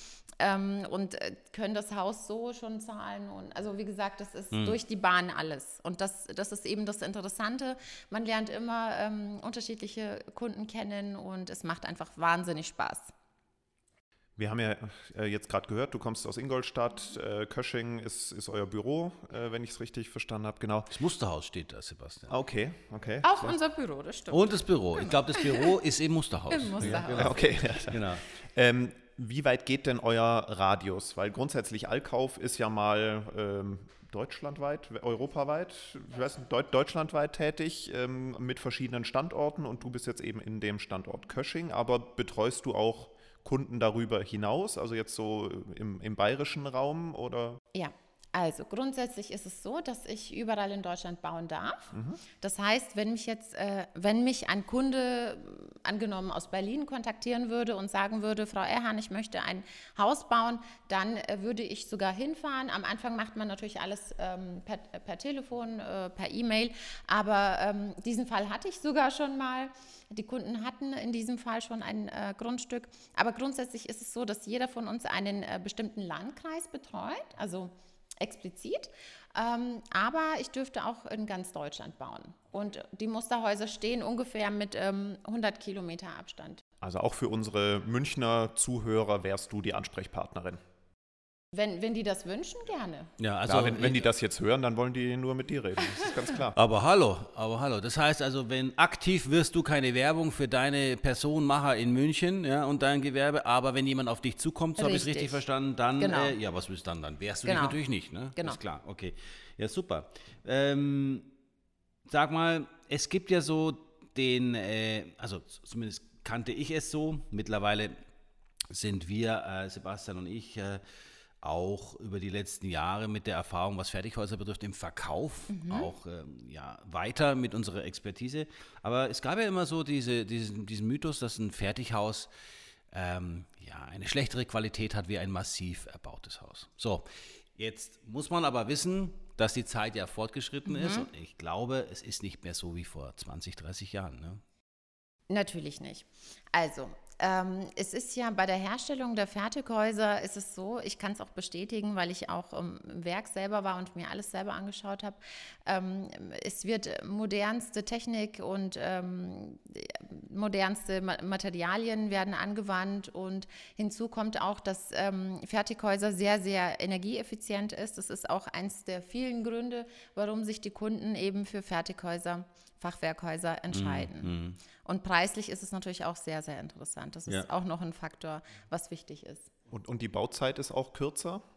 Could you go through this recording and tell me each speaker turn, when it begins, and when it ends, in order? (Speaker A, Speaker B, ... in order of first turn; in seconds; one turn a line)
Speaker A: 0.4-13.1
Speaker B: 14.4-20.9
Speaker C: 20.9-22.3
Speaker B: 22.3-23.6
Speaker A: 23.2-25.7
Speaker C: 24.3-28.2
Speaker A: 26.5-27.6
Speaker B: 27.1-47.6
Speaker A: 47.7-86.6
Speaker B: 51.9-52.2
Speaker B: 86.8-90.6
Speaker A: 91.5-93.1
Speaker C: 93.2-94.0
Speaker B: 93.5-96.5
Speaker C: 96.5-111.3
Speaker A: 104.8-105.4
Speaker A: 106.0-106.3
Speaker A: 107.4-107.8
Speaker C: 112.1-118.0
Speaker C: 118.7-120.8
Speaker C: 121.4-132.3
Speaker A: 125.5-125.9
Speaker C: 132.9-144.4
Speaker A: 140.7-141.1
Speaker A: 145.3-179.5
Speaker C: 173.7-174.6
Speaker B: 179.7-181.4